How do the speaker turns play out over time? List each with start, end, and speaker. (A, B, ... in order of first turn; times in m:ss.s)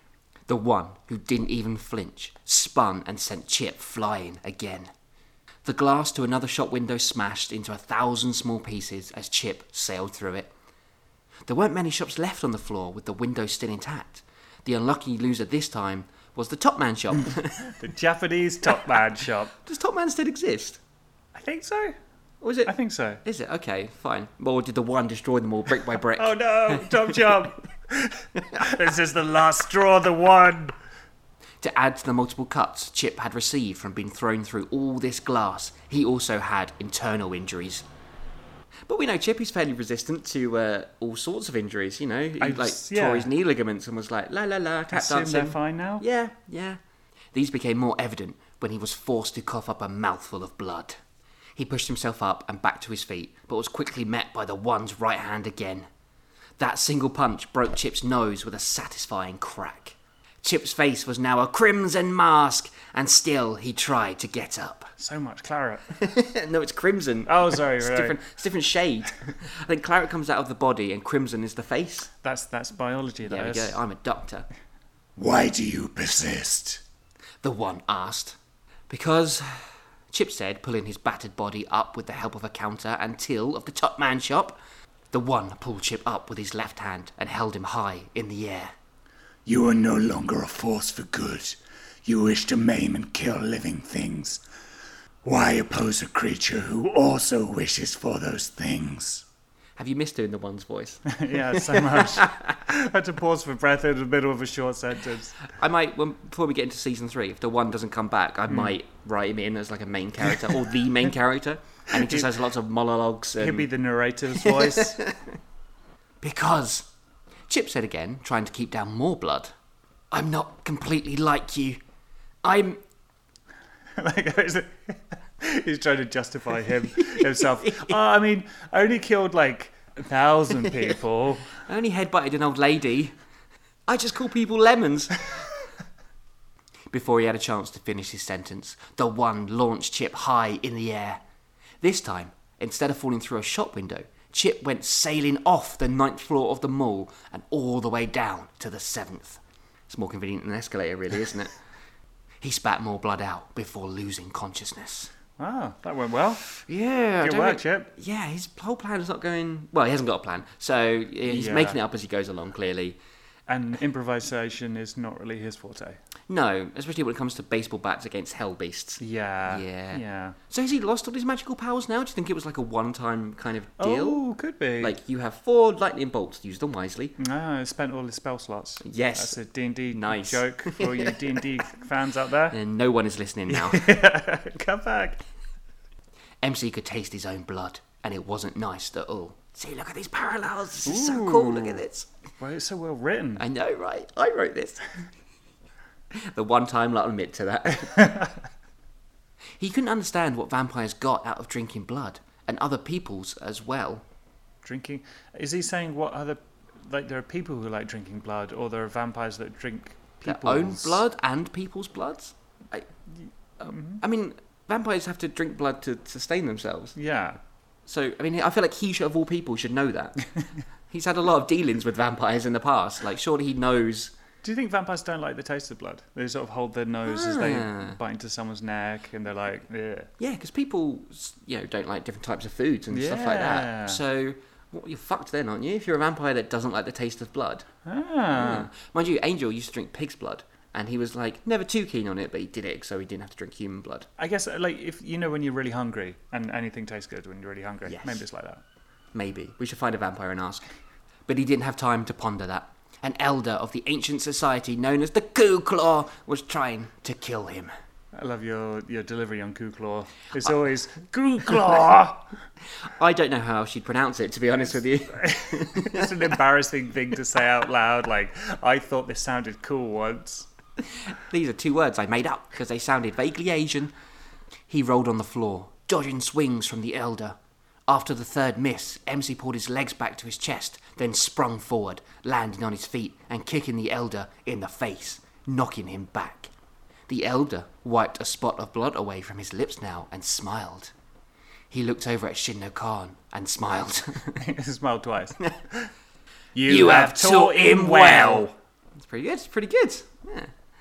0:00.5-0:04.9 A
0:05.6-0:10.5 A
0:11.5-0:17.8 A
0:17.7-0:19.5 B
0:19.6-0:20.8 A
0:21.4-0:22.0 B
0:22.4-0:27.4 A
0:22.7-0:23.2 B
0:26.2-0:30.8 B
0:28.4-0:28.7 A
0:31.6-0:37.9 A
0:38.9-0:46.8 A
0:42.4-0:43.3 B
0:44.9-0:46.0 B
0:47.3-0:51.0 A
0:51.6-0:55.9 A
0:56.6-1:04.9 A
1:05.0-1:05.9 B
1:06.0-1:12.1 A
1:07.3-1:08.2 B
1:12.2-1:13.8 B
1:13.2-1:14.5 A
1:15.2-1:16.8 C
1:17.4-1:18.4 A
1:18.9-1:24.6 A
1:25.1-1:28.7 A
1:29.5-1:34.4 C
1:35.2-1:39.2 C
1:39.8-1:42.7 A
1:41.1-1:45.4 B
1:45.4-1:53.7 A
1:48.5-1:48.8 B
1:51.9-1:52.3 B
1:53.4-1:55.0 B
1:54.4-1:55.2 A
1:56.2-1:56.9 A
1:57.5-1:59.5 A
2:00.1-2:01.8 A
2:02.4-2:02.8 A
2:04.0-2:11.6 B
2:07.0-2:08.0 A
2:11.5-2:13.2 A
2:13.9-2:15.4 A
2:16.9-2:21.2 A
2:21.8-2:31.5 A
2:32.4-2:35.1 A
2:35.4-2:36.4 B
2:36.5-2:43.0 A
2:37.2-2:37.9 B
2:41.3-2:41.8 B
2:43.5-2:46.0 B
2:46.3-2:54.2 A
2:49.0-2:50.4 B
2:53.8-2:55.0 B
2:54.8-2:57.2 A
2:57.2-3:02.6 B
2:58.8-2:59.4 A
2:59.9-3:01.2 A
3:02.5-3:03.9 A
3:03.5-3:05.2 B
3:06.4-3:12.1 A
3:10.8-3:11.8 B
3:12.4-3:13.4 B
3:13.4-3:14.8 A
3:16.1-3:18.2 A
3:19.6-3:24.0 A
3:24.6-3:31.0 B
3:30.2-3:32.9 A
3:33.6-3:37.0 A
3:33.6-3:34.0 B
3:37.0-3:37.4 B
3:37.9-3:40.3 A
3:40.9-3:44.1 A
3:44.4-3:50.1 B
3:47.1-3:48.0 A
3:50.2-3:57.7 A
3:52.9-3:54.0 B
3:57.8-3:58.7 B
3:58.3-4:04.1 A
4:04.2-4:08.6 B
4:07.8-4:08.2 A
4:09.1-4:10.6 A
4:11.3-4:17.7 A
4:18.2-4:22.3 B
4:22.8-4:26.2 A
4:25.2-4:30.5 B
4:31.1-4:33.9 A
4:34.7-4:37.4 A
4:37.9-4:46.5 A
4:47.1-4:50.9 A
4:51.7-4:54.4 A
4:54.4-4:55.9 B
4:56.6-4:58.5 B
4:56.7-5:00.5 A